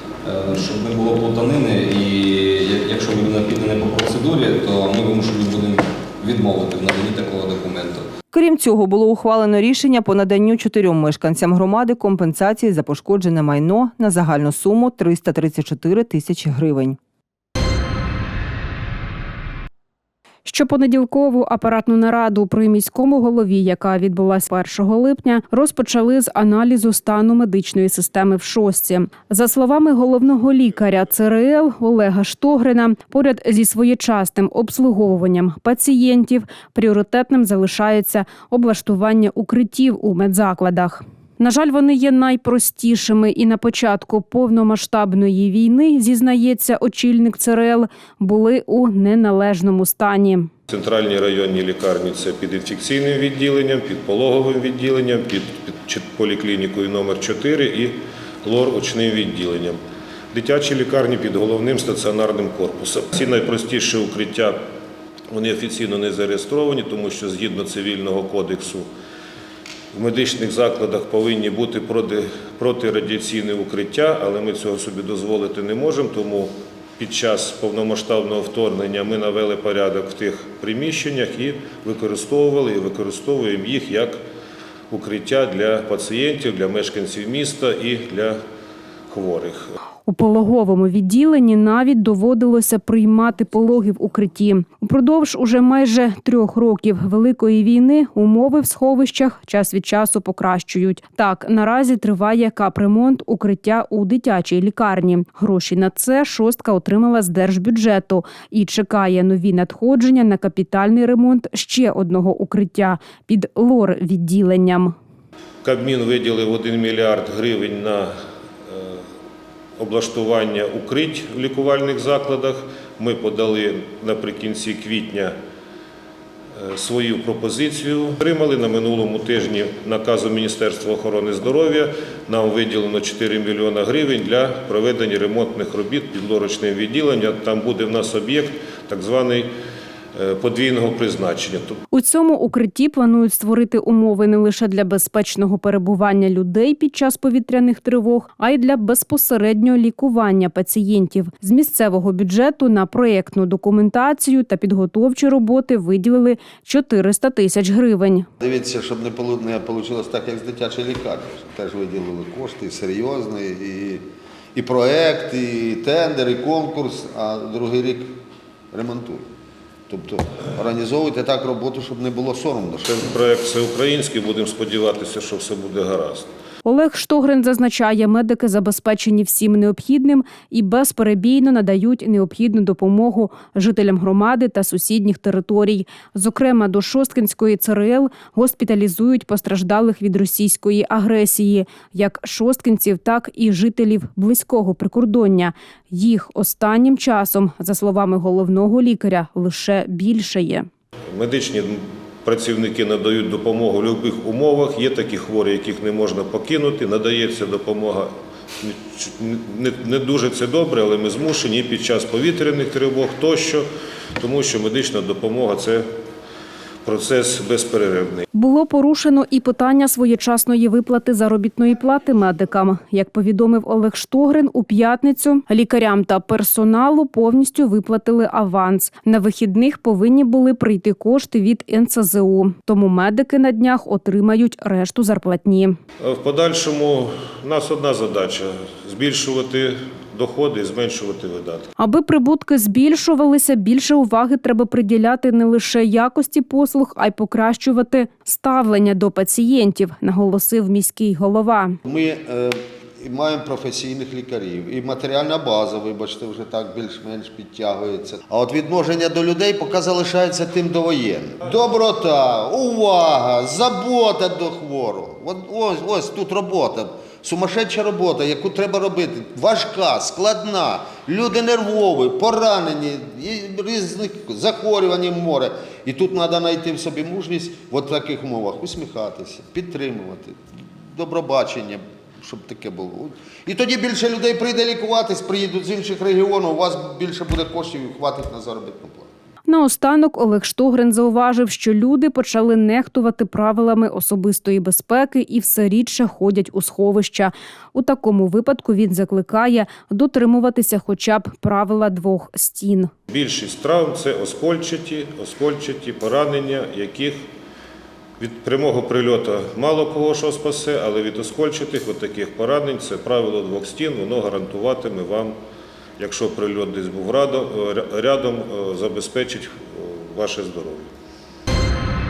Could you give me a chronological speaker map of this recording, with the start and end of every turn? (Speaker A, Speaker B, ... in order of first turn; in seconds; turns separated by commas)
Speaker A: 0.2-8.1, Speaker B: 8.3-16.9, Speaker C: 20.4-50.5, Speaker D: 50.7-59.8, Speaker D: 60.3-64.6, Speaker D: 65.3-68.9, Speaker D: 69.9-84.2, Speaker D: 84.9-88.4, Speaker D: 89.1-89.7, Speaker C: 90.1-115.0, Speaker D: 115.6-118.1, Speaker D: 118.7-119.0, Speaker D: 119.8-125.3, Speaker D: 126.5-139.5, Speaker D: 140.1-141.8, Speaker C: 141.9-158.3, Speaker E: 158.4-168.2, Speaker E: 168.7-169.3, Speaker E: 169.9-172.9, Speaker D: 172.9-176.3, Speaker C: 176.6-200.7, Speaker D: 201.1-215.9, Speaker D: 216.8-218.2, Speaker C: 218.3-235.8, Speaker D: 236.0-241.7, Speaker C: 241.8-251.8, Speaker E: 251.8-280.4, Speaker E: 280.9-289.1, Speaker C: 289.5-302.9, Speaker D: 303.1-307.3, Speaker D: 308.2-315.4, Speaker D: 316.0-320.9